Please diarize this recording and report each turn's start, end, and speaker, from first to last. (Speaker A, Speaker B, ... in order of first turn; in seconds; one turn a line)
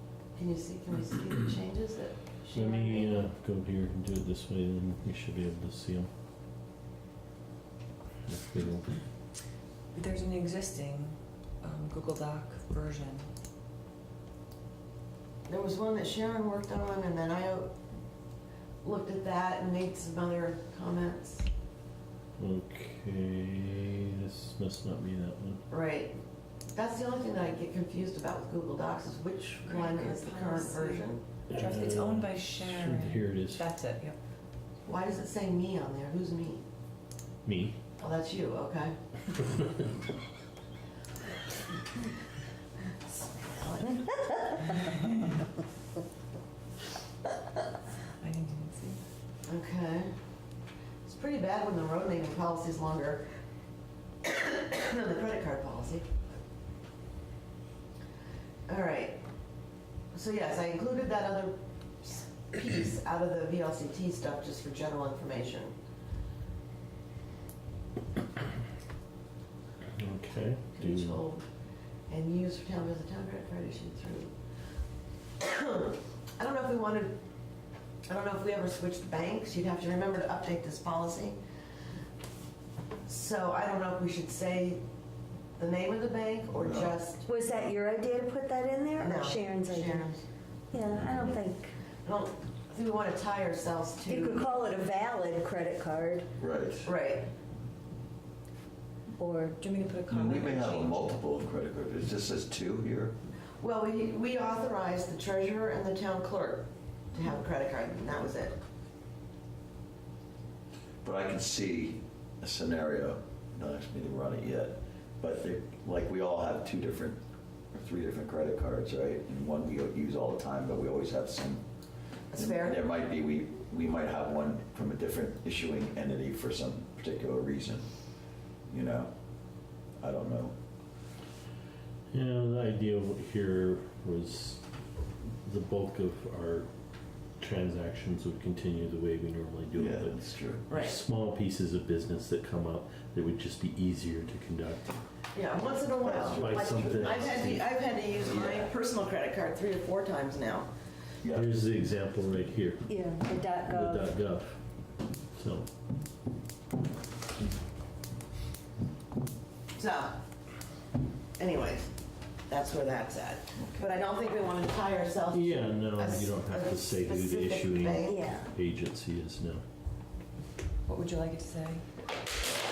Speaker A: 0.4-3.2
Speaker B: 2.5-6.1
Speaker B: 8.3-8.9
Speaker C: 9.9-13.3
Speaker A: 15.5-17.8
Speaker A: 18.8-21.4
Speaker B: 22.4-25.6
Speaker A: 25.7-26.2
Speaker A: 26.7-31.2
Speaker C: 29.6-34.2
Speaker B: 31.5-33.6
Speaker A: 34.9-36.6
Speaker B: 37.5-37.8
Speaker A: 38.0-39.0
Speaker A: 43.1-44.2
Speaker C: 48.2-49.0
Speaker A: 49.5-50.1
Speaker A: 51.0-53.3
Speaker A: 54.2-56.1
Speaker A: 58.7-59.2
Speaker A: 60.1-65.8
Speaker B: 70.0-71.2
Speaker A: 70.7-71.5
Speaker A: 72.1-74.3
Speaker A: 75.4-77.2
Speaker A: 78.1-81.4
Speaker A: 83.0-84.8
Speaker A: 85.6-87.3
Speaker D: 86.5-86.9
Speaker E: 87.3-90.0
Speaker A: 89.0-90.2
Speaker E: 90.7-91.7
Speaker A: 92.0-94.5
Speaker E: 94.1-96.3
Speaker D: 96.4-96.9
Speaker A: 96.8-97.3
Speaker E: 99.2-99.6
Speaker C: 99.6-101.2
Speaker D: 100.1-103.2
Speaker A: 103.6-108.6
Speaker D: 111.0-117.2
Speaker D: 117.7-121.6
Speaker A: 122.3-122.8
Speaker D: 122.4-127.9
Speaker D: 128.7-129.1
Speaker D: 130.0-130.5
Speaker B: 132.1-134.6
Speaker B: 135.4-136.7
Speaker B: 137.4-145.0
Speaker D: 139.7-140.6
Speaker A: 140.7-141.0
Speaker A: 145.3-150.7
Speaker D: 146.0-147.5
Speaker B: 146.2-147.7
Speaker D: 148.2-148.7
Speaker D: 151.2-151.5
Speaker B: 151.3-152.9
Speaker E: 152.9-154.1
Speaker B: 153.7-154.6
Speaker B: 155.4-155.7
Speaker A: 159.8-160.2
Speaker A: 161.4-161.9
Speaker A: 162.5-168.3
Speaker B: 165.3-169.6
Speaker E: 168.1-168.5
Speaker C: 170.9-171.8